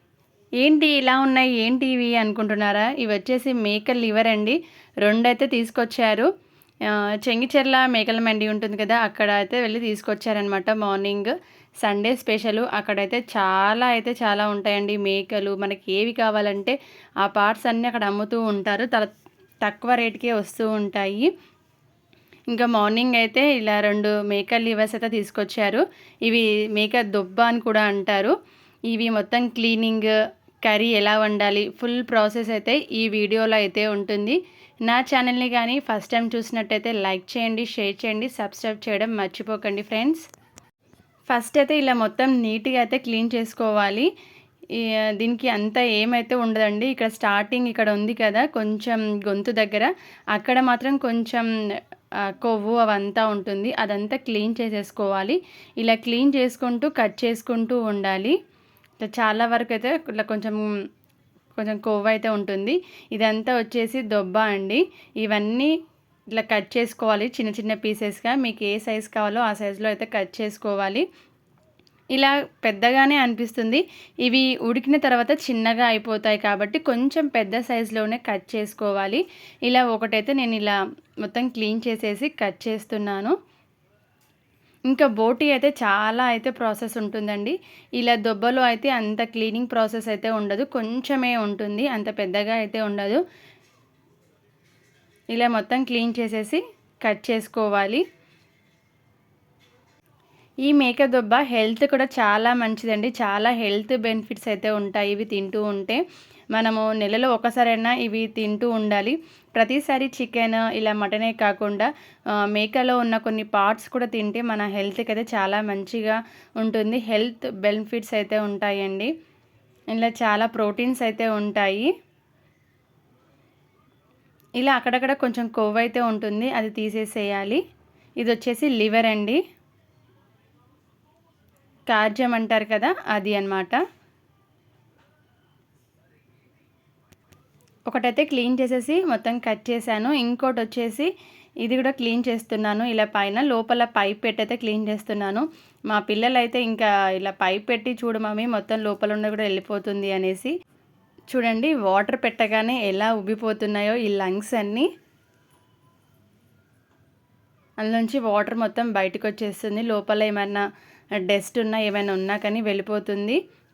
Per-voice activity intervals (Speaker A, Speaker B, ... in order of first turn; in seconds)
Speaker A: 0.6-6.3, 6.9-19.1, 19.6-21.3, 22.5-28.3, 28.9-30.1, 30.6-40.2, 41.3-44.1, 44.7-51.5, 52.2-58.4, 59.0-60.7, 61.5-65.7, 66.3-71.0, 72.1-83.3, 84.9-93.2, 95.3-98.0, 100.7-106.0, 106.5-111.9, 112.4-119.1, 119.9-121.9, 124.6-127.6, 128.2-129.4, 131.9-133.8, 137.9-141.1, 141.6-150.5, 151.3-154.9, 157.8-160.6, 161.2-163.4